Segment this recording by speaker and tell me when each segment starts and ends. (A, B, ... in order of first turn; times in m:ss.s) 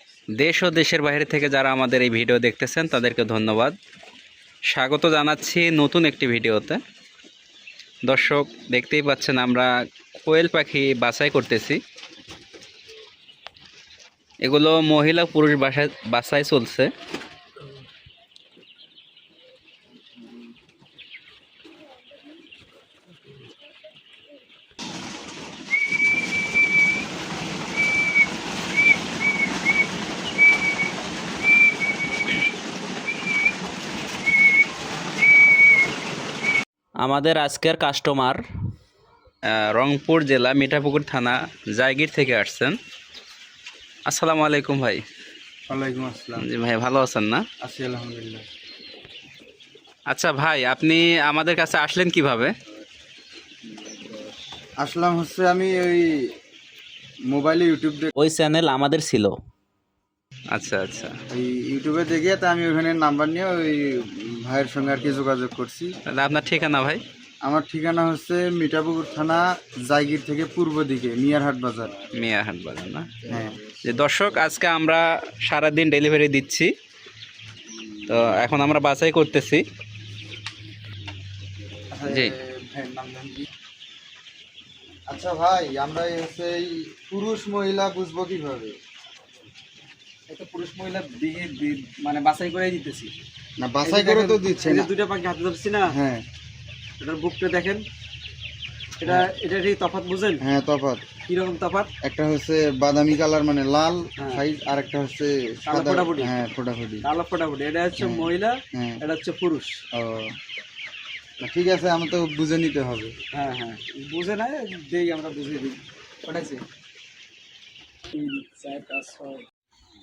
0:00.4-0:03.7 A
0:04.7-0:06.8 A
0:08.0-0:09.7 A
0:10.2-0:11.8 A
0:14.4-0:16.9 A
0:37.0-0:38.4 A
0:39.5-0:42.8 A
0:44.0-0:45.0 A
0:45.7-0:46.4 B
0:46.4-0:47.4 A
0:47.6-0:48.4 B
0:50.1-0:52.5 A
0:54.8-0:56.2 B
0:57.3-0:58.1 B
0:58.2-0:59.3 A
1:00.5-1:01.2 A
1:01.3-1:05.9 B
1:06.1-1:07.0 A
1:07.4-1:11.9 B
1:12.1-1:13.2 A
1:13.3-1:13.6 B
1:13.8-1:16.7 A
1:18.1-1:19.6 A
1:21.9-1:23.4 B
1:22.1-1:22.3 A
1:25.1-1:28.8 B
1:30.3-1:33.1 C
1:33.6-1:34.9 B
1:33.8-1:35.9 C
1:35.9-1:36.2 B
1:37.0-1:37.8 C
1:39.0-1:40.4 C
1:40.4-1:41.1 B
1:41.3-1:41.9 C
1:42.0-1:47.1 B
1:44.2-1:44.4 C
1:45.7-1:46.3 C
1:47.0-1:49.7 C
1:48.0-1:49.0 B
1:49.9-1:50.3 B
1:51.4-1:53.1 B
1:53.3-1:56.6 C
1:58.1-1:59.4 C